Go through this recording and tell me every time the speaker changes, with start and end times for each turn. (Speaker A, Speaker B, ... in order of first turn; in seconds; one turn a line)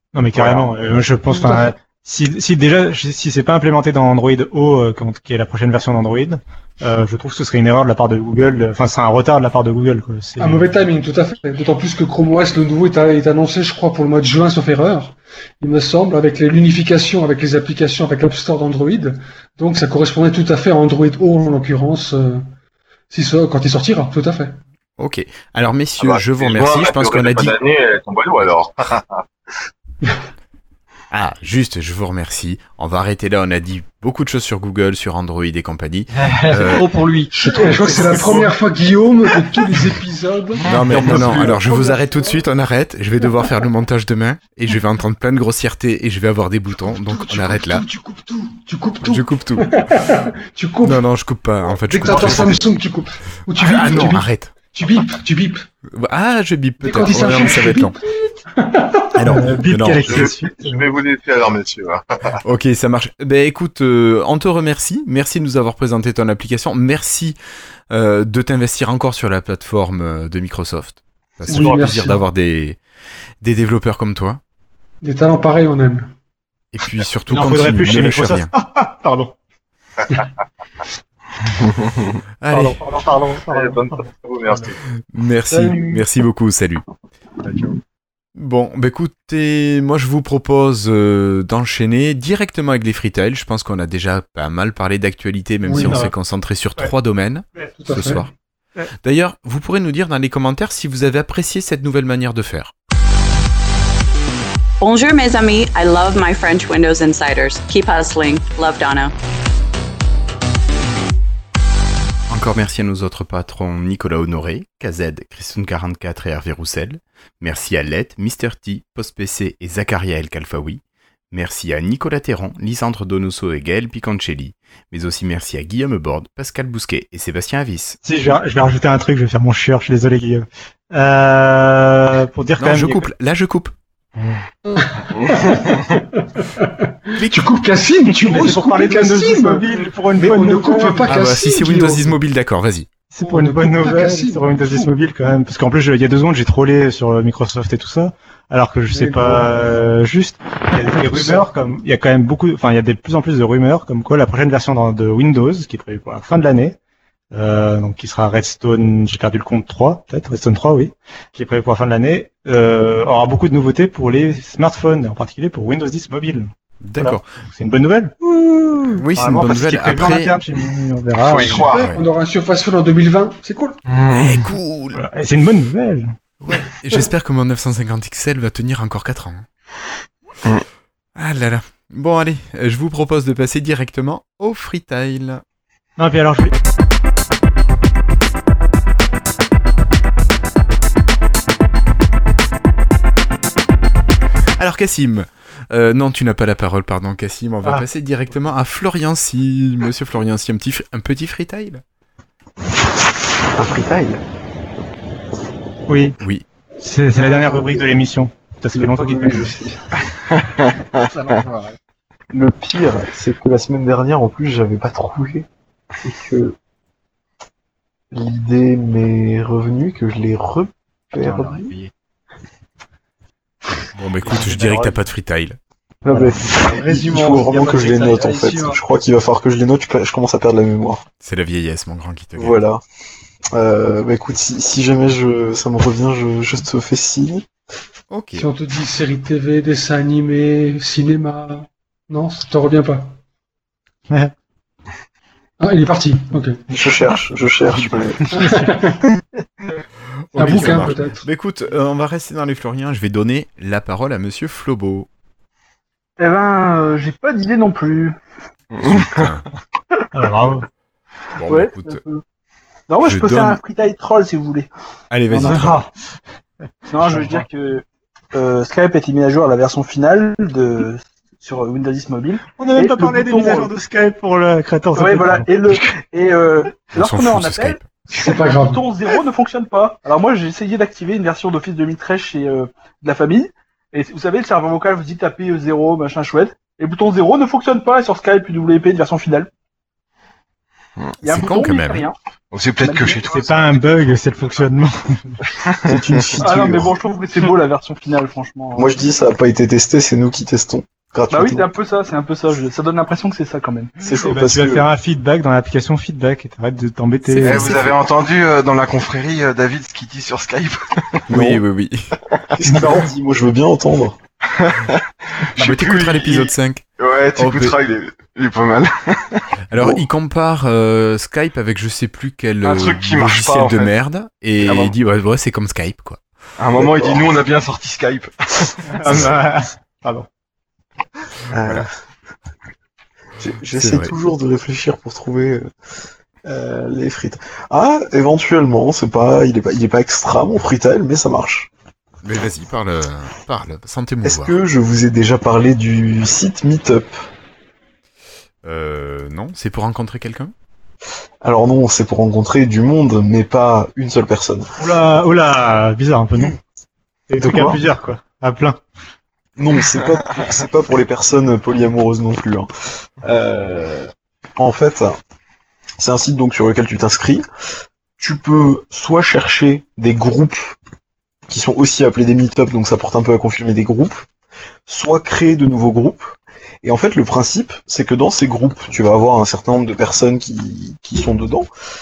Speaker A: 0.1-10.7
Speaker B: 1.3-1.7
Speaker B: 10.4-22.5
Speaker B: 23.1-24.6
Speaker C: 25.0-27.6
Speaker D: 26.0-29.2
Speaker C: 31.1-36.9
Speaker E: 36.2-38.4
Speaker B: 37.3-42.4
Speaker C: 38.0-38.5
Speaker C: 40.7-47.9
Speaker E: 40.8-41.5
Speaker B: 46.9-51.0
Speaker C: 49.0-49.8
Speaker C: 50.8-52.6
Speaker B: 51.7-55.7
Speaker C: 53.6-54.5
Speaker C: 55.9-58.0
Speaker B: 56.8-59.5
Speaker C: 59.1-60.3
Speaker A: 59.2-60.8
Speaker D: 60.0-62.3
Speaker C: 62.4-67.4
Speaker C: 67.9-72.8
Speaker D: 71.5-71.8
Speaker B: 71.5-72.2
Speaker C: 73.4-74.4
Speaker B: 75.0-76.1
Speaker C: 76.7-78.5
Speaker A: 77.3-79.3
Speaker C: 82.4-82.8
Speaker A: 82.5-84.0
Speaker D: 83.5-84.8
Speaker C: 85.1-86.9
Speaker B: 85.5-86.0
Speaker C: 88.3-98.3
Speaker B: 95.7-96.0
Speaker A: 95.8-96.1
Speaker A: 97.5-98.2
Speaker B: 97.8-98.2
Speaker C: 99.0-102.7
Speaker F: 104.8-109.1
Speaker C: 112.3-128.0
Speaker A: 128.0-133.1
Speaker C: 132.6-133.7
Speaker B: 134.7-142.2
Speaker G: 135.3-135.6
Speaker C: 137.2-137.5
Speaker A: 138.1-141.2
Speaker C: 141.1-142.9
Speaker A: 143.1-156.8
Speaker B: 143.2-144.9
Speaker B: 148.9-149.5
Speaker B: 151.0-151.4
Speaker A: 157.3-168.1
Speaker C: 166.8-167.4
Speaker C: 168.2-170.4
Speaker A: 169.1-171.8
Speaker D: 171.3-171.8
Speaker B: 171.3-173.8
Speaker C: 171.7-172.1
Speaker G: 173.9-174.5
Speaker C: 174.2-175.0
Speaker A: 174.9-176.2
Speaker C: 176.4-179.5
Speaker C: 181.2-185.4
Speaker A: 186.0-186.5
Speaker C: 194.6-201.8
Speaker H: 203.6-204.2
Speaker A: 205.9-206.2
Speaker C: 206.2-206.5
Speaker A: 206.8-209.6
Speaker H: 208.8-209.6
Speaker E: 209.2-209.5
Speaker E: 211.1-211.8
Speaker H: 212.3-215.5
Speaker H: 216.0-216.6
Speaker H: 218.1-221.7
Speaker E: 221.2-221.9
Speaker C: 223.9-225.6
Speaker A: 224.4-224.9
Speaker H: 226.1-231.0
Speaker E: 226.1-228.8
Speaker B: 226.6-227.7
Speaker C: 231.2-232.6
Speaker H: 232.4-232.8
Speaker H: 233.5-237.5
Speaker C: 238.1-238.5
Speaker B: 238.4-243.2
Speaker B: 245.6-246.6
Speaker H: 246.7-248.4
Speaker B: 248.3-249.0
Speaker A: 248.4-248.7
Speaker C: 250.3-255.1
Speaker B: 250.3-251.2
Speaker I: 256.2-258.2
Speaker G: 258.8-259.2
Speaker C: 258.8-259.4
Speaker A: 260.1-260.7
Speaker C: 261.4-262.0
Speaker I: 261.4-262.2
Speaker I: 262.9-264.7
Speaker C: 263.0-263.6
Speaker C: 265.1-265.8
Speaker I: 265.3-265.7
Speaker A: 265.3-265.9
Speaker I: 266.9-273.7
Speaker A: 267.0-267.4
Speaker A: 272.6-275.5
Speaker I: 274.9-289.5
Speaker C: 276.9-277.9
Speaker B: 278.1-278.8
Speaker I: 291.2-292.1
Speaker C: 291.3-292.1
Speaker G: 292.5-293.5
Speaker I: 292.8-293.7
Speaker A: 293.3-295.4
Speaker H: 295.9-296.7
Speaker A: 296.3-296.7
Speaker I: 296.4-298.9
Speaker H: 298.8-301.7
Speaker I: 301.3-304.0
Speaker H: 304.0-304.8
Speaker A: 304.1-307.9
Speaker C: 307.3-308.0
Speaker G: 307.4-310.8
Speaker C: 311.3-312.1
Speaker H: 311.3-311.6
Speaker H: 312.6-314.2
Speaker G: 315.6-319.4
Speaker C: 315.6-316.9
Speaker C: 317.4-317.8
Speaker C: 319.7-326.2
Speaker G: 322.6-323.9
Speaker G: 324.6-324.9
Speaker G: 326.6-328.7
Speaker H: 326.8-327.3
Speaker A: 328.9-330.3
Speaker G: 331.5-331.8
Speaker H: 333.4-335.7
Speaker C: 333.7-334.1
Speaker H: 336.4-341.7
Speaker C: 342.2-344.6
Speaker H: 344.2-347.3
Speaker C: 348.6-350.5
Speaker H: 351.4-354.7
Speaker A: 354.8-356.6
Speaker A: 357.3-358.8
Speaker H: 357.4-357.8
Speaker H: 359.6-362.7
Speaker H: 363.2-365.2
Speaker H: 366.0-367.4
Speaker H: 368.2-370.8
Speaker H: 371.5-374.3
Speaker H: 374.9-381.7